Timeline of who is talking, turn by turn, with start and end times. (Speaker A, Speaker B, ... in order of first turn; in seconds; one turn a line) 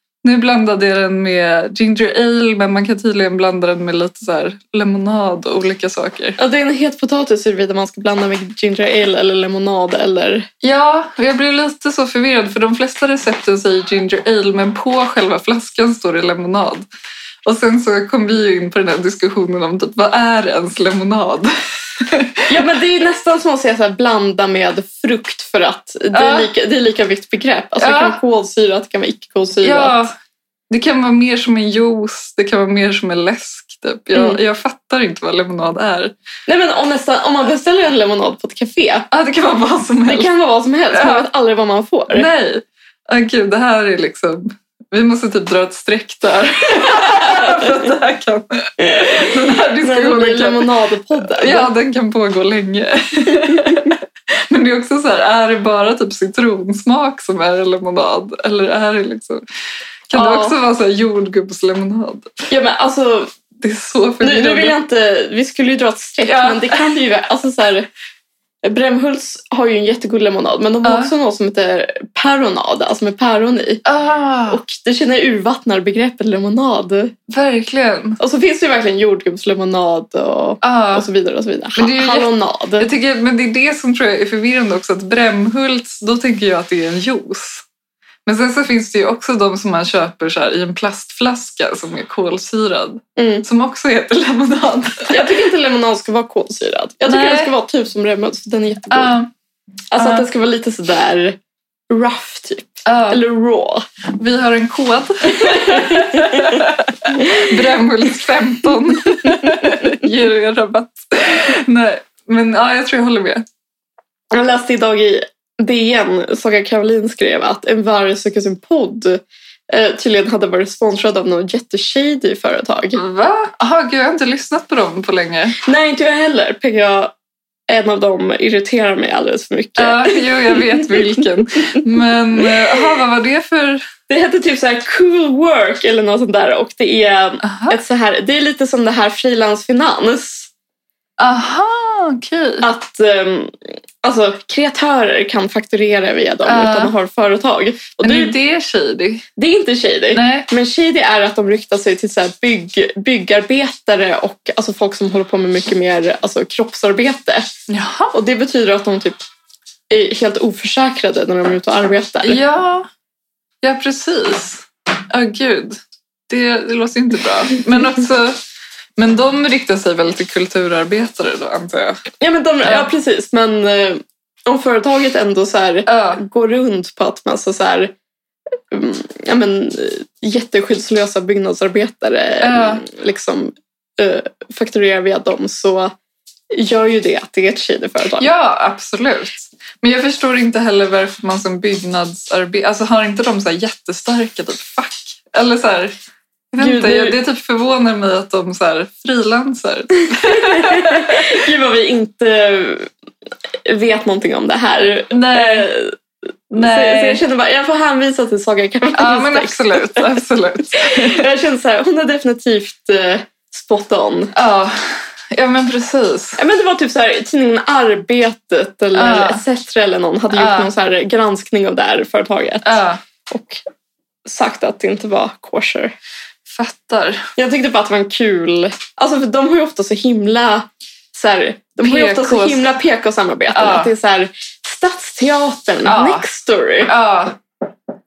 Speaker A: 0.2-6.4
Speaker B: 6.4-10.5
Speaker A: 10.6-16.8
Speaker A: 17.4-22.6
Speaker B: 22.5-30.0
Speaker A: 26.1-26.5
Speaker A: 27.8-28.2
Speaker A: 29.6-30.1
Speaker A: 30.7-36.1
Speaker B: 34.1-34.4
Speaker B: 36.5-39.1
Speaker A: 39.1-40.3
Speaker B: 40.1-42.3
Speaker A: 40.9-41.3
Speaker A: 42.1-50.7
Speaker B: 48.8-49.3
Speaker B: 49.8-51.7
Speaker A: 51.2-59.4
Speaker A: 60.1-62.5
Speaker B: 60.1-60.6
Speaker B: 62.5-63.3
Speaker A: 63.6-64.8
Speaker B: 64.2-67.9
Speaker A: 66.2-66.8
Speaker B: 68.6-73.8
Speaker A: 70.8-71.1
Speaker A: 73.8-74.6
Speaker B: 74.5-77.1
Speaker A: 77.3-78.2
Speaker B: 78.2-82.9
Speaker A: 80.6-81.1
Speaker A: 81.8-87.6
Speaker A: 88.2-95.4
Speaker B: 93.2-93.5
Speaker B: 95.1-99.2
Speaker A: 97.1-97.5
Speaker A: 98.9-99.3
Speaker B: 99.9-101.4
Speaker A: 100.0-100.3
Speaker B: 101.9-103.8
Speaker A: 102.8-103.2
Speaker A: 104.1-113.4
Speaker B: 105.3-106.6
Speaker B: 114.3-123.0
Speaker A: 123.0-125.6
Speaker B: 125.6-127.1
Speaker B: 127.7-131.2
Speaker A: 129.8-133.8
Speaker B: 134.1-140.5
Speaker A: 137.4-137.8
Speaker A: 141.2-142.7
Speaker B: 142.6-148.3
Speaker A: 146.4-146.9
Speaker A: 148.0-149.2
Speaker B: 149.4-157.5
Speaker A: 150.1-150.5
Speaker A: 157.7-158.1
Speaker B: 158.1-159.2
Speaker B: 159.9-162.4
Speaker A: 162.2-162.9
Speaker A: 163.6-168.4
Speaker A: 168.9-172.0
Speaker B: 172.2-177.9
Speaker A: 172.6-172.9
Speaker A: 175.9-176.2
Speaker B: 178.7-185.9
Speaker A: 182.4-182.8
Speaker B: 186.5-188.3
Speaker A: 188.2-196.0
Speaker A: 196.5-201.4
Speaker B: 196.6-197.2
Speaker B: 200.3-202.9
Speaker B: 203.7-206.0
Speaker A: 205.1-205.7
Speaker B: 206.5-214.3
Speaker A: 206.5-207.2
Speaker A: 208.9-211.3
Speaker A: 214.3-216.4
Speaker B: 216.4-223.6
Speaker A: 218.9-219.4
Speaker A: 220.3-220.7
Speaker A: 222.6-223.0
Speaker B: 224.2-225.9
Speaker A: 226.5-227.3
Speaker B: 227.4-236.9
Speaker A: 231.8-232.7
Speaker A: 233.5-233.9
Speaker A: 235.8-236.2
Speaker A: 236.8-237.4